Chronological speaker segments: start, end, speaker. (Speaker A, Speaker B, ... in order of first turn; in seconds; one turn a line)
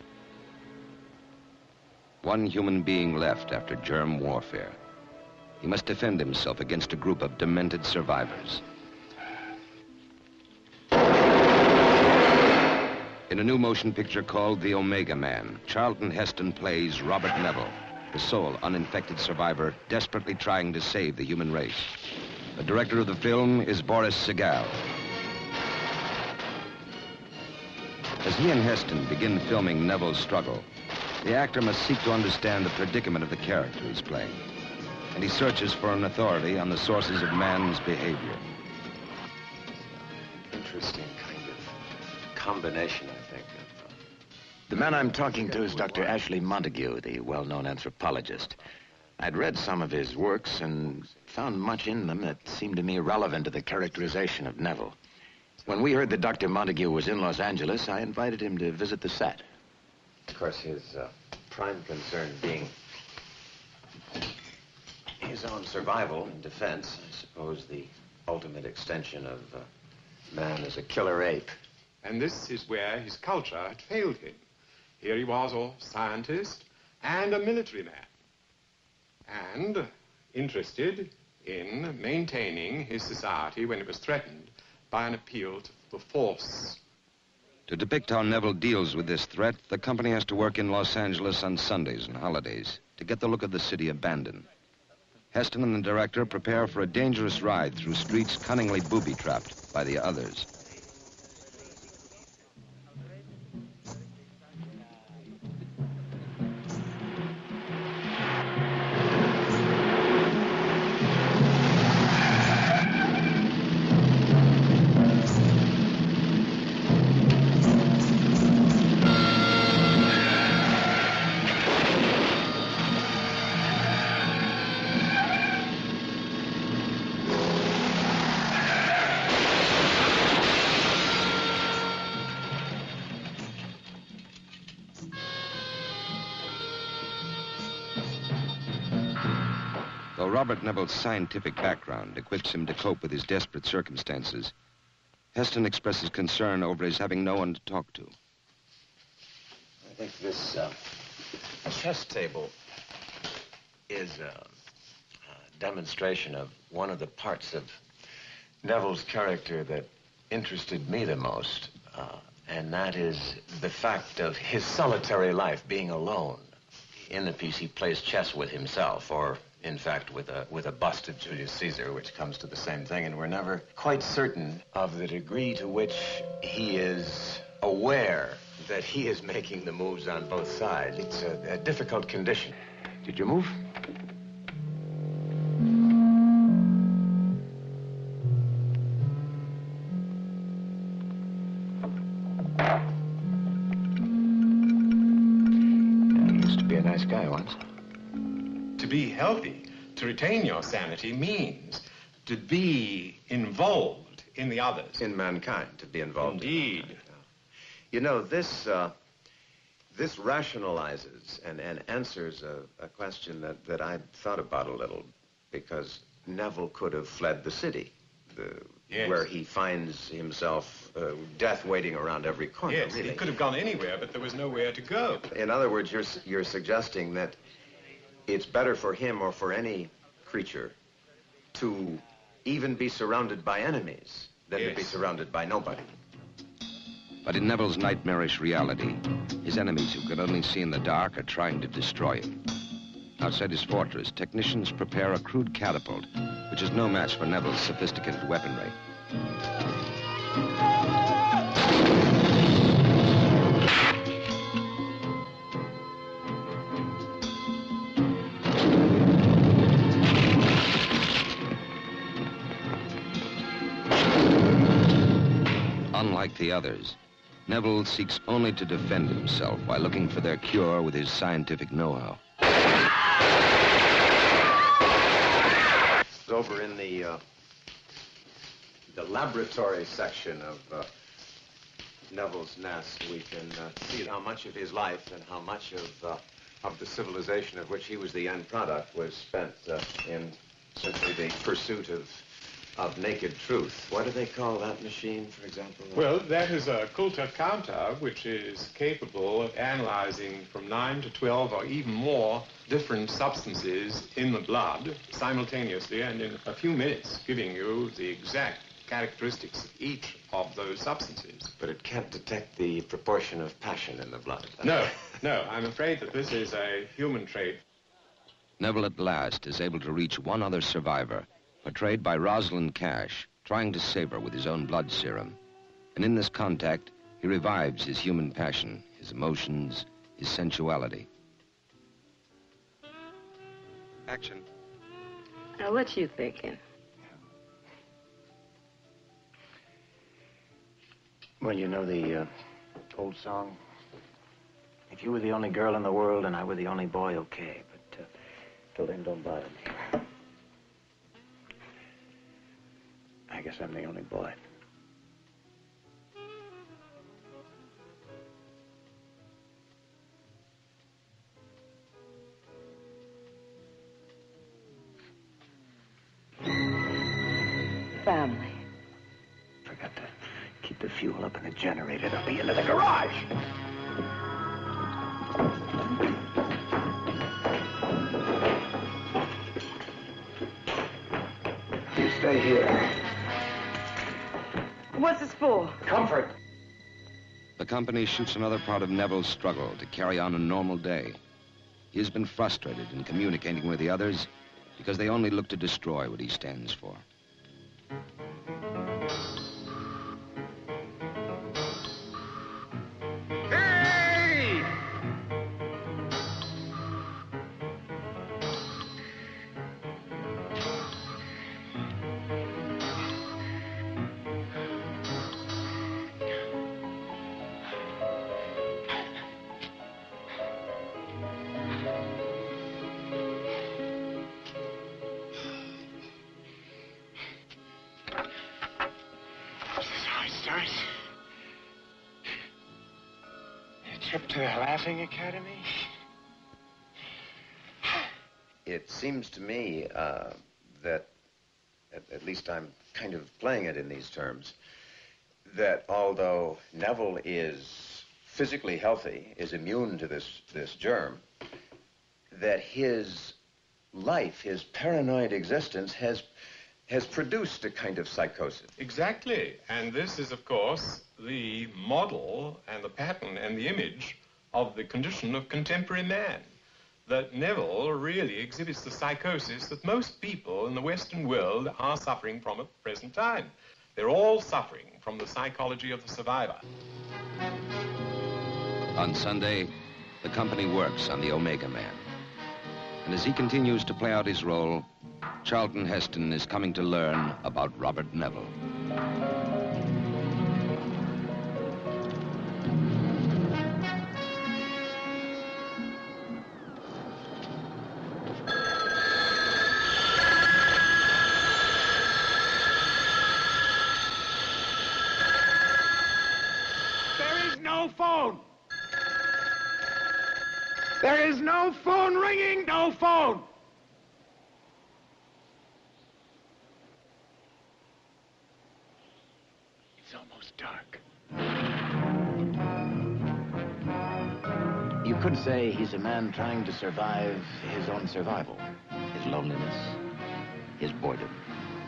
Speaker A: 2.2-4.8
Speaker A: 5.6-8.6
Speaker A: 13.3-22.0
Speaker A: 22.6-24.8
Speaker A: 28.2-30.7
Speaker A: 31.2-34.4
Speaker A: 35.1-38.4
Speaker B: 39.9-41.8
Speaker B: 42.3-44.0
Speaker B: 44.7-46.3
Speaker C: 44.7-48.5
Speaker C: 49.2-54.9
Speaker B: 50.7-51.5
Speaker C: 55.7-59.4
Speaker B: 60.3-62.7
Speaker B: 65.2-69.7
Speaker B: 70.3-71.5
Speaker D: 72.0-74.4
Speaker D: 75.0-78.1
Speaker D: 79.3-86.8
Speaker A: 87.7-94.5
Speaker A: 95.3-100.5
Speaker A: 140.2-144.5
Speaker A: 145.3-148.1
Speaker B: 149.8-152.5
Speaker B: 153.9-154.5
Speaker B: 155.3-157.8
Speaker B: 158.6-182.5
Speaker C: 183.0-183.5
Speaker C: 197.1-197.5
Speaker D: 198.8-205.0
Speaker B: 205.0-207.2
Speaker D: 206.2-207.0
Speaker B: 207.9-208.9
Speaker B: 209.9-223.2
Speaker D: 218.9-219.3
Speaker D: 222.7-225.3
Speaker B: 225.3-227.4
Speaker B: 228.3-230.8
Speaker B: 231.5-235.9
Speaker D: 234.6-235.0
Speaker A: 237.2-242.4
Speaker A: 243.2-248.8
Speaker A: 265.9-272.2
Speaker B: 276.2-277.2
Speaker B: 278.9-280.9
Speaker B: 282.1-296.1
Speaker D: 295.9-311.5
Speaker B: 311.6-314.9
Speaker D: 314.6-317.6
Speaker A: 318.6-325.4
Speaker A: 325.9-331.1
Speaker A: 334.1-334.5
Speaker E: 335.6-336.6
Speaker C: 341.4-342.3
Speaker C: 342.9-343.6
Speaker C: 344.9-348.0
Speaker C: 348.8-349.7
Speaker C: 353.3-354.4
Speaker E: 368.0-368.6
Speaker C: 370.6-373.2
Speaker B: 382.2-382.8
Speaker E: 384.9-385.8
Speaker B: 386.0-386.3
Speaker A: 387.6-391.2
Speaker A: 391.9-397.0
Speaker B: 434.0-435.4
Speaker B: 438.7-441.1
Speaker B: 441.9-444.6
Speaker B: 445.4-451.2
Speaker B: 452.3-453.4
Speaker B: 453.9-456.3
Speaker B: 456.9-458.8
Speaker D: 458.8-466.5
Speaker D: 467.1-476.6
Speaker A: 478.9-482.1
Speaker A: 483.0-484.9
Speaker A: 485.4-488.5
Speaker B: 507.7-508.3
Speaker B: 511.2-512.2
Speaker C: 520.1-521.0
Speaker C: 525.0-530.0
Speaker C: 530.8-531.4